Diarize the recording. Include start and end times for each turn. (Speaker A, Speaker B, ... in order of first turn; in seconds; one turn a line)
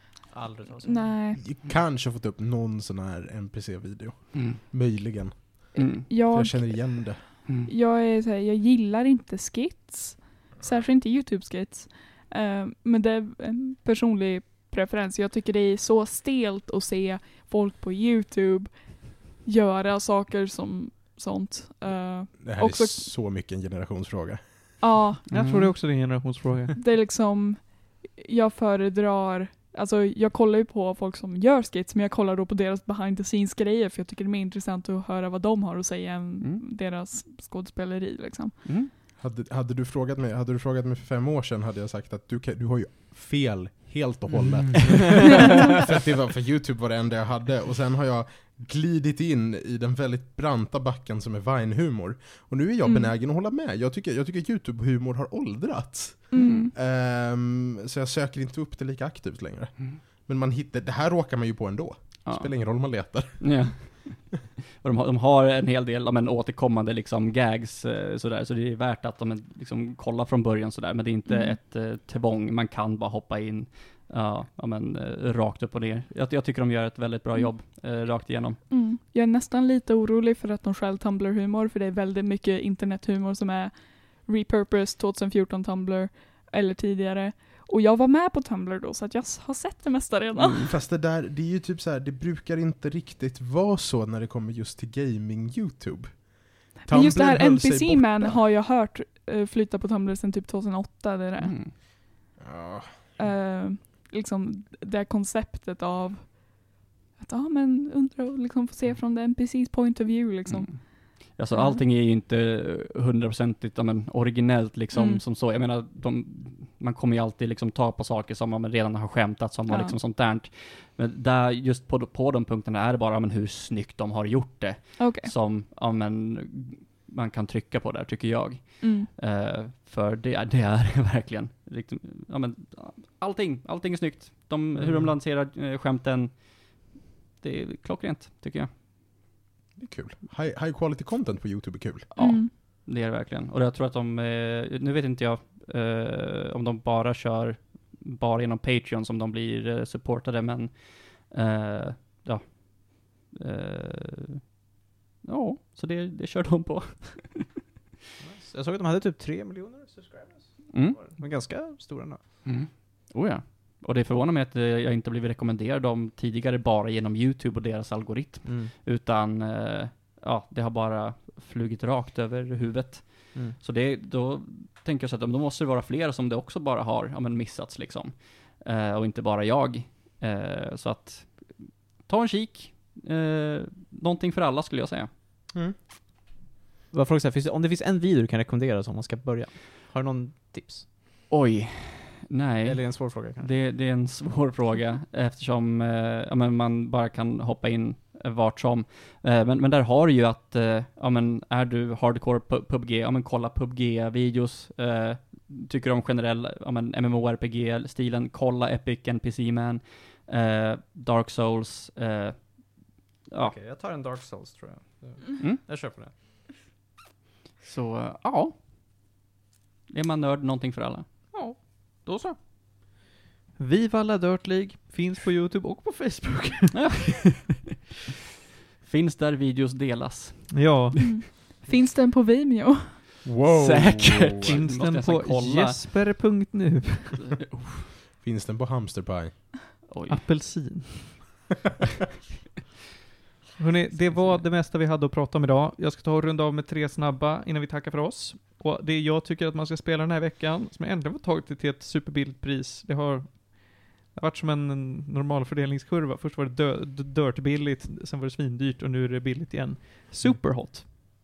Speaker A: 0.3-1.1
Speaker B: 0.8-1.4
Speaker C: 1.4-7.2
Speaker D: 4.3-4.6
Speaker D: 5.8-6.0
Speaker B: 5.8-23.1
Speaker C: 22.4-24.7
Speaker B: 24.8-25.2
Speaker D: 25.3-25.7
Speaker E: 25.3-26.8
Speaker B: 26.8-38.8
Speaker D: 36.4-36.6
Speaker D: 38.6-38.9
Speaker C: 39.2-63.9
Speaker B: 52.8-53.1
Speaker B: 56.3-56.7
Speaker D: 56.3-56.7
Speaker D: 62.2-78.6
Speaker B: 71.2-71.6
Speaker B: 78.7-90.7
Speaker C: 90.3-98.4
Speaker B: 96.8-101.6
Speaker D: 101.4-101.7
Speaker C: 102.4-103.1
Speaker B: 103.2-111.8
Speaker D: 110.4-138.7
Speaker B: 114.9-115.2
Speaker B: 119.7-120.0
Speaker B: 125.0-125.3
Speaker B: 128.8-129.1
Speaker C: 134.8-135.1
Speaker C: 139.8-142.1
Speaker B: 142.2-142.5
Speaker D: 142.2-154.5
Speaker D: 155.2-157.6
Speaker A: 158.2-162.2
Speaker D: 160.7-161.2
Speaker D: 162.4-185.5
Speaker A: 168.4-168.7
Speaker A: 186.9-190.9
Speaker D: 191.3-213.6
Speaker A: 192.6-193.5
Speaker A: 213.4-216.1
Speaker D: 217.6-218.5
Speaker D: 219.9-221.1
Speaker E: 221.3-222.4
Speaker E: 223.6-227.2
Speaker D: 226.7-227.5
Speaker D: 228.8-230.9
Speaker E: 230.5-231.1
Speaker B: 231.0-233.1
Speaker C: 233.2-234.6
Speaker D: 233.5-235.8
Speaker E: 234.4-237.2
Speaker D: 237.4-237.8
Speaker C: 238.2-239.5
Speaker D: 239.8-240.2
Speaker E: 240.1-241.3
Speaker E: 243.6-260.9
Speaker D: 244.1-244.4